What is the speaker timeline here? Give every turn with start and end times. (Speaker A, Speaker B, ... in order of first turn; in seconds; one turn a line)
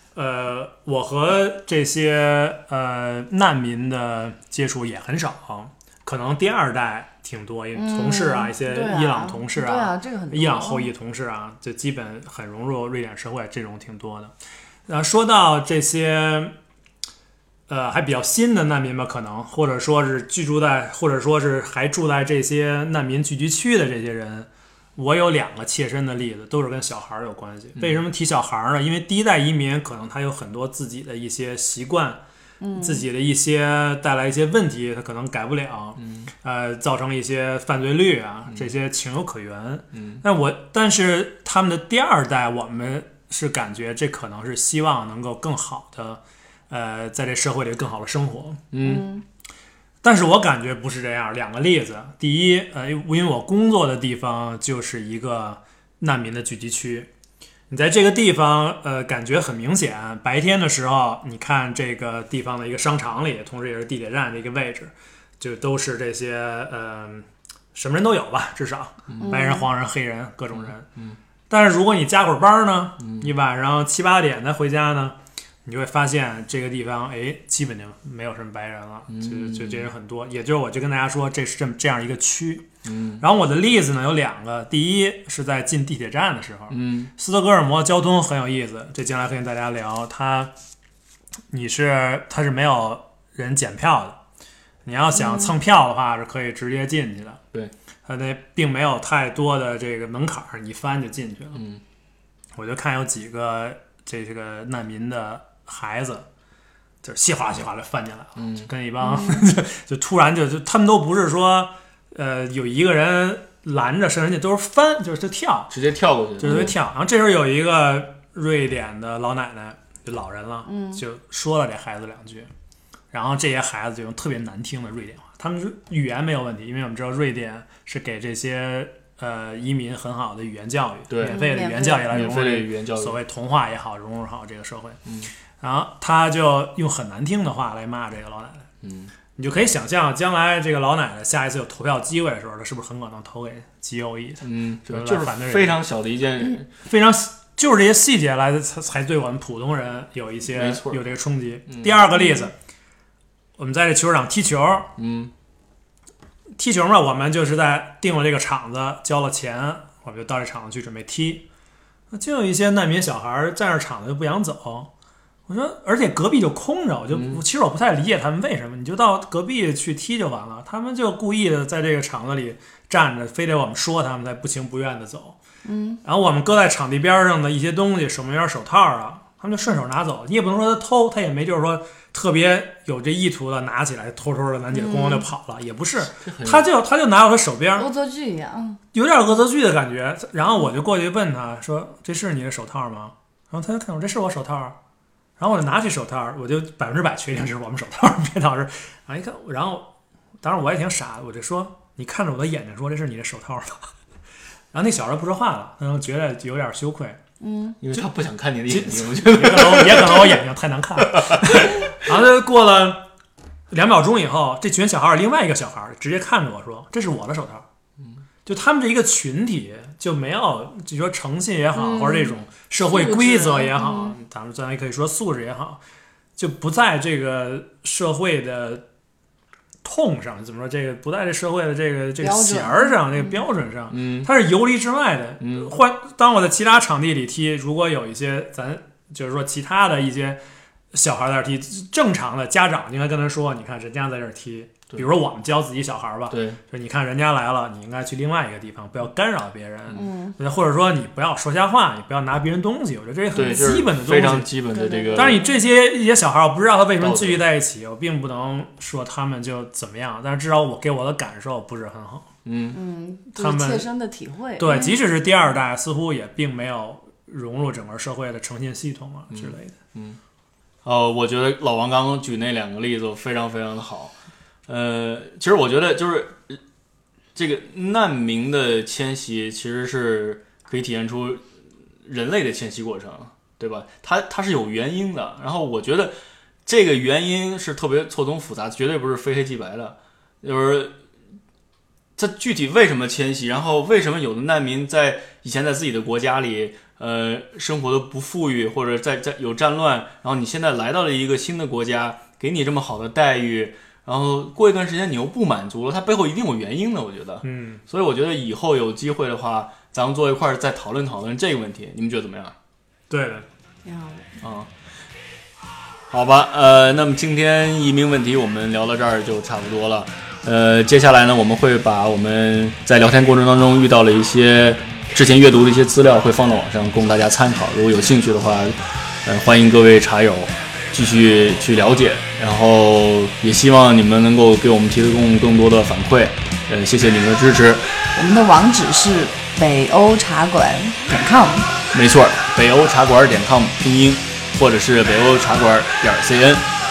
Speaker A: 0.1-14.3
Speaker B: 7.7-10.9
Speaker A: 14.9-16.5
Speaker A: 17.7-32.2
Speaker C: 27.8-28.0
Speaker B: 32.6-33.0
Speaker A: 32.7-48.6
Speaker C: 36.0-36.3
Speaker C: 39.9-40.2
Speaker C: 48.7-49.1
Speaker B: 48.8-49.2
Speaker A: 50.0-57.1
Speaker A: 57.7-70.9
Speaker B: 69.2-69.7
Speaker C: 70.5-71.2
Speaker A: 71.5-82.7
Speaker C: 73.0-73.3
Speaker C: 79.1-79.9
Speaker C: 82.8-83.2
Speaker A: 83.2-90.5
Speaker C: 86.7-87.1
Speaker A: 91.5-94.2
Speaker A: 94.8-97.4
Speaker B: 95.2-95.5
Speaker A: 98.0-101.6
Speaker C: 101.5-101.8
Speaker A: 102.6-106.2
Speaker A: 107.0-115.7
Speaker C: 108.4-108.7
Speaker B: 109.1-109.4
Speaker C: 115.7-116.7
Speaker A: 116.4-122.5
Speaker B: 116.5-116.7
Speaker B: 120.7-121.0
Speaker A: 123.1-135.0
Speaker C: 131.1-131.4
Speaker B: 131.2-132.2
Speaker C: 131.9-133.2
Speaker A: 135.6-138.7
Speaker C: 138.8-139.1
Speaker A: 139.4-145.8
Speaker C: 144.4-146.7
Speaker A: 146.8-152.5
Speaker C: 150.5-151.0
Speaker C: 151.7-152.0
Speaker A: 153.6-154.9
Speaker C: 155.0-155.3
Speaker A: 156.6-161.4
Speaker A: 162.1-164.9
Speaker A: 165.5-175.4
Speaker C: 167.1-167.4
Speaker B: 175.6-176.0
Speaker A: 176.0-187.8
Speaker B: 184.7-185.2
Speaker C: 186.2-186.7
Speaker B: 187.8-188.8
Speaker A: 188.9-194.8
Speaker A: 195.4-199.9
Speaker A: 200.4-203.9
Speaker A: 204.7-207.2
Speaker B: 207.4-207.8
Speaker C: 207.8-210.4
Speaker A: 208.7-213.1
Speaker C: 211.0-211.8
Speaker A: 213.7-217.7
Speaker A: 218.4-225.8
Speaker B: 221.7-224.2
Speaker A: 226.4-228.8
Speaker A: 229.8-240.4
Speaker B: 232.2-233.4
Speaker C: 233.9-234.3
Speaker C: 235.4-235.7
Speaker A: 240.9-254.6
Speaker C: 246.3-246.6
Speaker B: 249.9-250.4
Speaker C: 253.3-255.4
Speaker B: 253.4-253.7
Speaker B: 254.7-255.6
Speaker A: 255.1-262.3
Speaker C: 257.0-257.4
Speaker C: 262.4-262.8
Speaker B: 262.7-265.0
Speaker A: 263.3-263.9
Speaker A: 264.6-269.7
Speaker C: 269.3-270.2
Speaker C: 270.8-274.1
Speaker C: 274.7-276.6
Speaker C: 277.3-281.4
Speaker C: 282.0-286.1
Speaker C: 286.6-290.9
Speaker C: 292.2-312.5
Speaker A: 307.4-307.8
Speaker A: 313.1-313.4
Speaker B: 313.8-314.4
Speaker C: 314.4-314.7
Speaker C: 316.1-337.9
Speaker B: 338.1-341.7
Speaker C: 341.9-346.7